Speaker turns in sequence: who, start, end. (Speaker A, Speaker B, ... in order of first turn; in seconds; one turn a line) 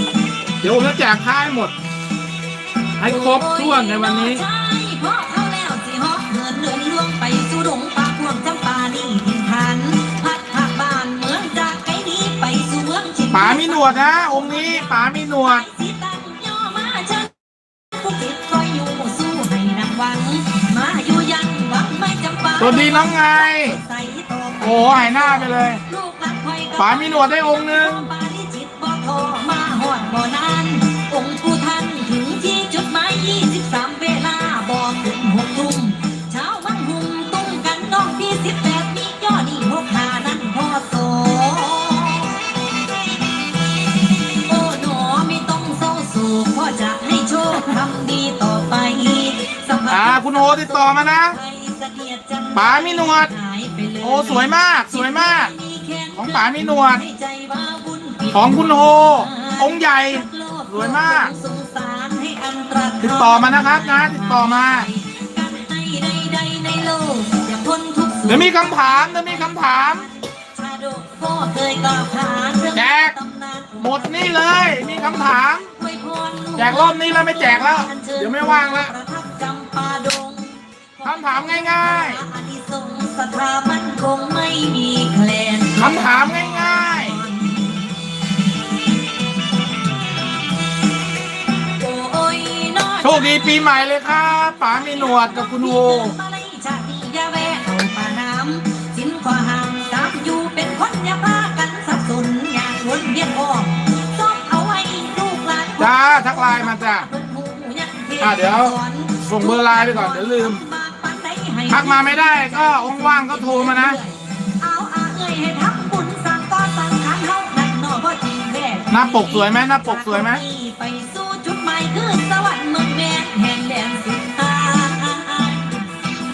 Speaker A: 0.6-1.7
Speaker A: 3.0-4.4
Speaker B: 3.0-17.4
Speaker A: 13.3-15.7
Speaker B: 17.9-42.5
Speaker A: 22.6-23.8
Speaker A: 24.6-25.8
Speaker A: 26.8-28.1
Speaker B: 44.5-87.9
Speaker A: 49.9-51.4
Speaker A: 52.5-53.3
Speaker A: 54.0-55.5
Speaker A: 56.1-57.0
Speaker A: 58.3-61.3
Speaker A: 63.0-64.9
Speaker A: 68.3-70.1
Speaker A: 72.7-73.2
Speaker A: 73.8-75.7
Speaker A: 76.6-78.9
Speaker A: 81.0-82.2
Speaker A: 85.8-87.2
Speaker B: 91.7-93.7
Speaker A: 93.0-96.2
Speaker B: 94.8-125.9
Speaker A: 105.8-107.1
Speaker A: 108.2-110.6
Speaker A: 111.7-114.0
Speaker A: 118.9-120.4